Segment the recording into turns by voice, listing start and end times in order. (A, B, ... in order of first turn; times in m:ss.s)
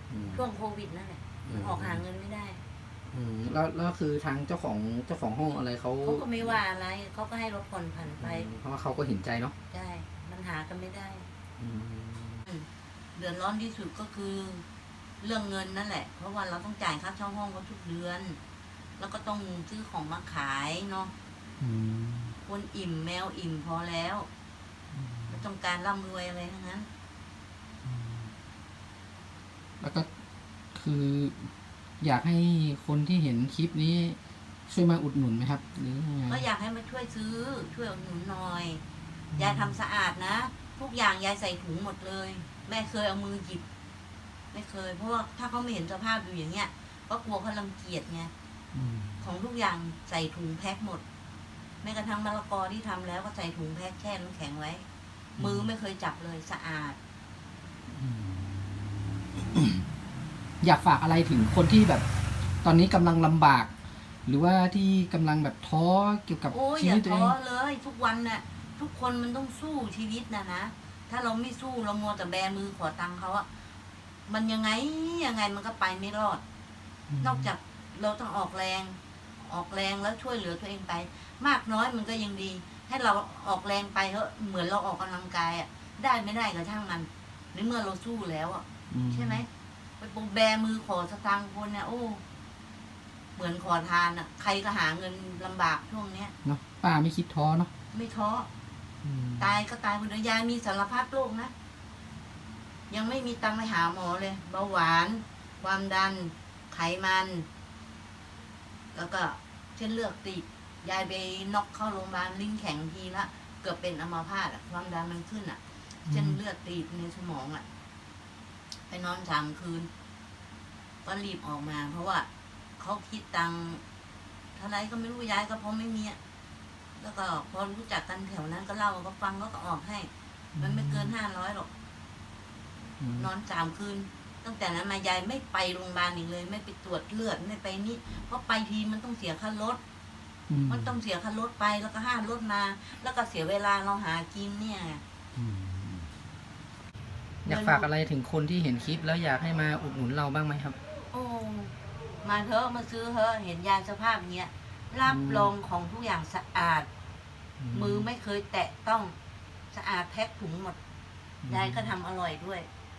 0:00.1-0:00.4 A
0:00.3-0:02.6 B
0:01.4-0:02.0 A
0:03.1-0:06.6 A
0:06.0-0:08.5 B
0:08.2-0:09.6 A
0:09.7-0:11.3 B
0:11.6-0:12.4 A
0:12.5-0:14.6 B
0:15.2-0:18.4 B
0:19.0-0:21.1 B
0:21.6-0:22.4 A
0:22.5-0:24.3 B
0:24.9-0:25.4 A
0:25.3-0:26.9 B
0:27.8-0:28.3 A
0:29.8-0:30.1 A
0:30.7-0:36.4 A
0:36.3-0:38.8 B
0:39.3-0:39.8 A
0:39.4-0:43.6 B
0:44.5-0:48.3 B
0:48.7-0:49.2 A
0:49.2-0:51.0 B
0:51.8-0:54.8 B
0:55.4-0:55.7 A
0:55.4-0:57.0 B
0:57.9-0:58.6 A
0:59.4-0:59.8 A
1:00.6-1:02.1 A
1:02.6-1:03.7 A
1:04.3-1:07.4 A
1:06.5-1:13.5 B
1:14.3-1:16.4 B
1:17.1-1:17.5 A
1:17.2-1:29.5 B
1:28.9-1:29.4 A
1:30.0-1:32.2 B
1:33.4-1:36.3 B
1:36.4-1:37.7 A
1:37.9-1:38.5 B
1:39.0-1:39.5 A
1:39.4-1:41.5 B
1:42.9-1:47.5 B
1:48.9-1:57.6 B
1:56.1-1:56.4 A
1:58.9-1:59.9 B
2:01.0-2:02.3 B
2:02.8-2:03.8 B
2:04.6-2:06.2 B
2:07.0-2:11.7 B
2:10.6-2:11.1 A
2:13.0-2:13.3 A
2:13.2-2:19.8 B
2:20.5-2:20.9 A
2:20.7-2:25.0 B
2:25.4-2:26.1 A
2:27.4-2:30.8 A
2:27.5-2:27.9 B
2:31.1-2:31.7 B
2:32.2-2:36.9 B
2:35.1-2:35.5 A
2:37.6-2:38.1 A
2:37.7-2:39.2 B
2:39.7-2:40.8 B
2:41.4-2:41.9 A
2:41.5-2:42.7 B